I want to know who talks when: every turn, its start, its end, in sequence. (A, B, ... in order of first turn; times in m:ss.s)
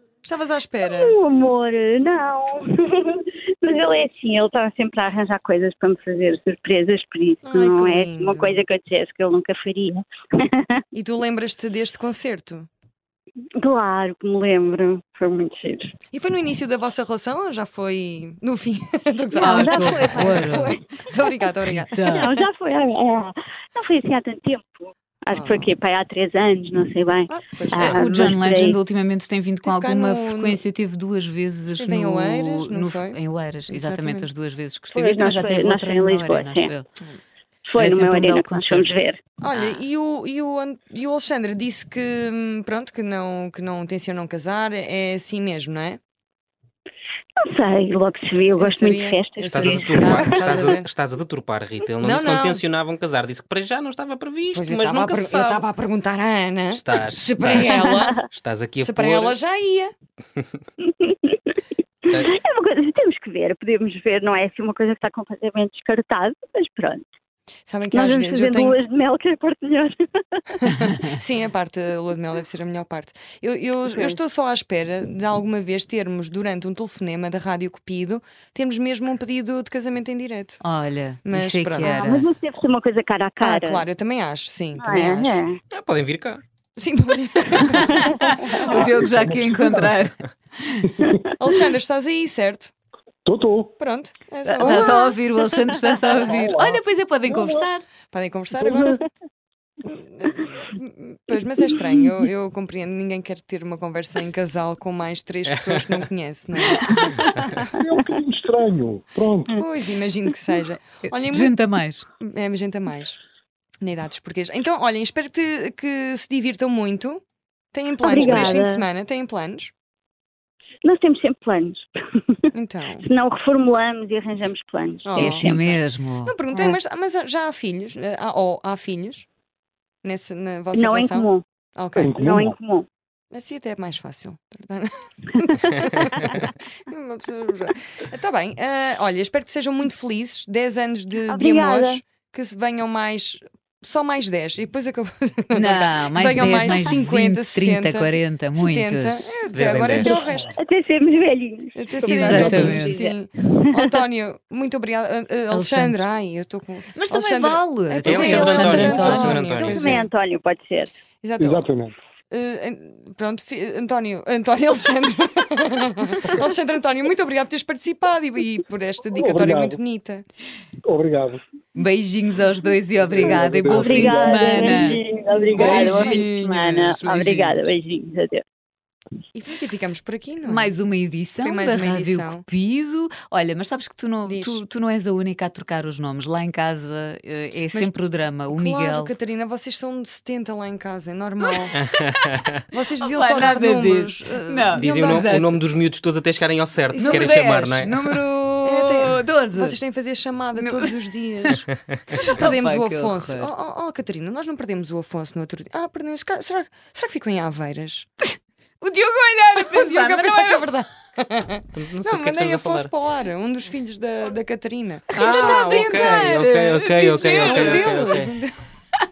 0:00.2-0:01.2 A
0:00.8-0:10.8 B
0:07.4-0:08.6 A
0:10.9-0:12.7 A
0:13.6-0:15.9 B
0:16.1-0:22.5 A
0:19.4-0:21.2 B
0:19.4-0:20.8 C
0:21.8-0:22.3 C
0:22.1-0:28.8 B
0:25.3-0:25.7 A
0:27.3-0:28.2 A
0:27.8-0:36.9 C
0:29.6-0:30.6 A
0:31.7-0:34.3 A
0:34.9-0:36.7 B
0:37.7-0:39.2 B
0:37.8-0:38.9 C
0:39.4-0:46.0 A
0:47.5-0:50.5 B
0:48.6-0:50.9 A
0:49.5-0:55.7 D
0:52.0-0:52.6 A
0:54.5-0:58.2 A
0:56.7-0:59.4 D
0:57.6-0:58.3 B
0:58.8-0:59.9 A
1:00.8-1:01.4 B
1:02.1-1:02.4 D
1:02.1-1:07.0 B
1:07.7-1:08.8 A
1:07.9-1:10.4 B
1:10.6-1:20.6 A
1:13.9-1:14.2 B
1:20.6-1:22.3 C
1:21.2-1:22.1 A
1:21.8-1:23.8 B
1:23.4-1:25.4 A
1:24.8-1:25.6 B
1:25.7-1:26.4 D
1:26.8-1:28.9 A
1:27.8-1:31.0 C
1:28.0-1:28.6 B
1:29.0-1:29.9 E
1:31.4-1:32.7 A
1:33.2-1:33.8 E
1:33.8-1:35.1 A
1:34.5-1:37.8 C
1:36.3-1:37.7 E
1:38.1-1:39.0 A
1:39.9-1:47.2 A
1:46.8-1:47.2 C
1:47.6-1:49.6 E
1:49.6-1:51.6 A
1:51.1-1:52.0 C
1:52.2-1:53.2 A
1:53.8-1:57.2 A
1:57.7-1:59.7 A
1:58.0-1:58.9 B
2:00.8-2:02.5 B
2:02.5-2:03.1 A
2:03.0-2:05.7 B
2:05.0-2:09.3 A
2:05.2-2:06.3 C
2:10.0-2:12.1 A
2:10.7-2:11.4 B
2:12.0-2:12.6 E
2:12.0-2:12.9 B
2:13.3-2:30.6 A
2:15.4-2:15.8 B
2:21.3-2:22.0 B
2:25.5-2:29.3 C
2:29.5-2:30.2 D
2:30.2-2:33.8 B
2:31.8-2:40.1 A
2:32.0-2:33.0 C
2:32.2-2:32.8 E
2:35.5-2:36.0 C
2:36.9-2:39.4 C
2:38.0-2:40.0 D
2:39.6-2:40.9 B
2:41.2-2:41.7 A
2:41.4-2:41.9 E
2:42.3-2:50.2 A
2:49.2-2:49.8 E
2:50.8-2:51.4 E
2:51.8-2:55.0 C
2:53.0-2:54.6 E
2:53.2-2:58.4 B
2:55.5-2:56.3 A
2:55.6-2:57.7 C
2:59.3-3:00.7 A
3:00.4-3:09.1 C
3:01.4-3:02.4 A
3:04.3-3:04.6 A
3:08.5-3:11.8 A
3:11.8-3:12.6 D
3:12.7-3:15.3 A
3:13.1-3:15.6 C
3:14.8-3:17.9 D
3:16.9-3:17.4 A
3:17.0-3:19.8 C
3:18.6-3:28.1 A
3:20.6-3:21.6 C
3:22.4-3:23.5 C
3:28.8-3:30.7 C
3:29.6-3:36.4 A
3:31.7-3:32.9 D
3:35.1-3:38.2 C
3:35.2-3:38.3 D
3:37.2-3:38.5 A